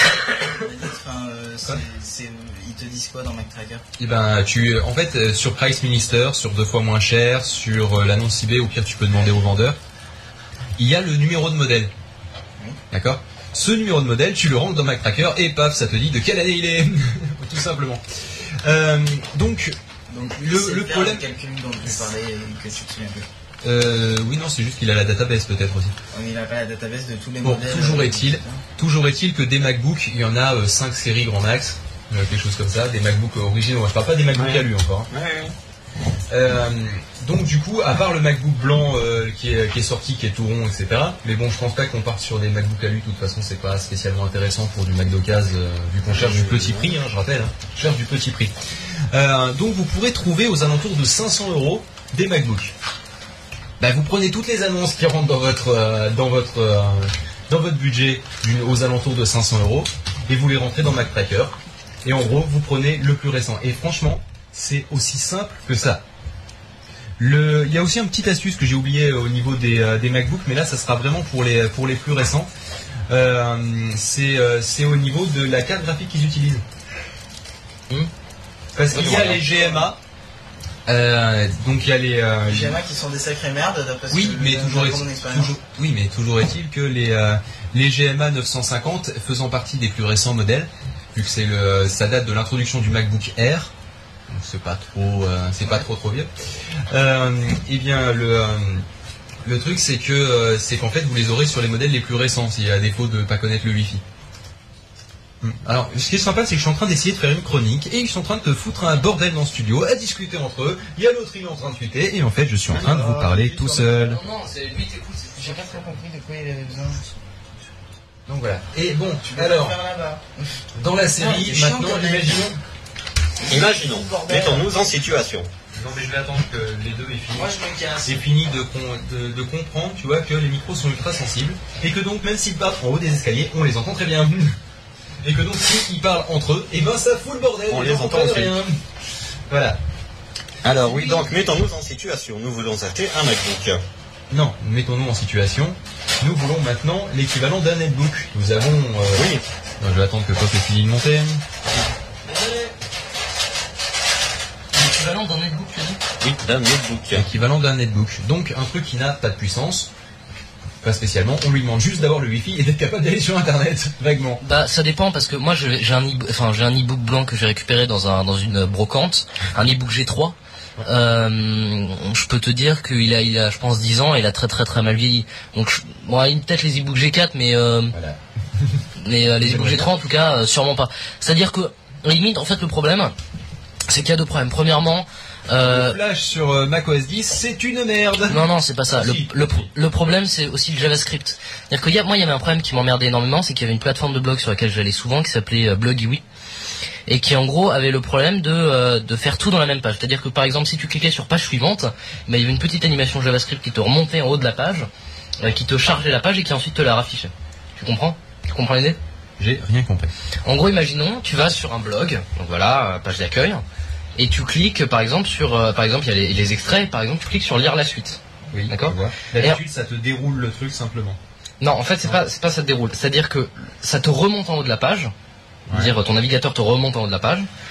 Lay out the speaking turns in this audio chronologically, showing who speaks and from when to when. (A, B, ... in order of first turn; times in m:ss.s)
0:00.4-0:03.8 A
0:04.0-0:09.8 B
0:10.8-0:11.9 B
0:12.9-0:19.8 B
0:20.1-0:23.3 A
0:20.4-0:21.2 B
0:23.6-0:26.0 B
0:26.1-0:28.6 A
0:27.4-0:35.1 B
0:34.3-0:35.6 C
0:36.3-0:48.5 B
0:46.1-0:47.0 C
0:49.1-0:52.7 B
0:53.8-1:06.0 B
1:07.2-1:12.5 B
1:13.1-1:16.6 B
1:18.8-1:20.0 B
1:18.9-1:19.4 D
1:19.0-1:19.8 A
1:20.9-1:22.8 B
1:22.5-1:25.5 A
1:24.1-1:33.7 B
1:34.3-1:36.3 B
1:36.9-1:38.8 B
1:39.4-1:44.0 B
1:45.4-1:54.2 B
1:52.7-1:53.2 C
1:53.0-1:53.9 A
1:53.8-1:56.0 D
1:55.4-1:57.1 A
1:58.3-1:59.8 B
1:59.4-2:00.5 A
2:00.8-2:02.6 B
2:01.2-2:02.5 A
2:03.5-2:04.7 A
2:03.5-2:05.5 C
2:05.7-2:07.5 B
2:07.3-2:08.2 A
2:08.0-2:14.6 B
2:15.2-2:18.8 B
2:17.7-2:18.6 C
2:19.5-2:19.8 B
2:20.6-2:23.8 C
2:20.8-2:21.3 D
2:24.3-2:31.4 B
2:29.2-2:29.4 C
2:32.3-2:32.7 D
2:34.7-2:36.0 D
2:36.2-2:37.3 C
2:37.1-2:39.9 B
2:40.8-2:44.4 B
2:44.4-2:58.0 D
2:57.9-2:58.7 B
2:59.0-3:03.1 D
2:59.4-2:59.9 B
3:03.9-3:06.0 D
3:05.6-3:09.7 B
3:08.3-3:16.2 D
3:17.1-3:24.9 D
3:25.4-3:29.0 D
3:29.4-3:30.1 B
3:30.4-3:33.6 D
3:34.2-3:39.6 D
3:38.5-3:41.2 B
3:41.6-3:45.1 D
3:45.7-3:45.9 B
3:45.7-3:47.5 D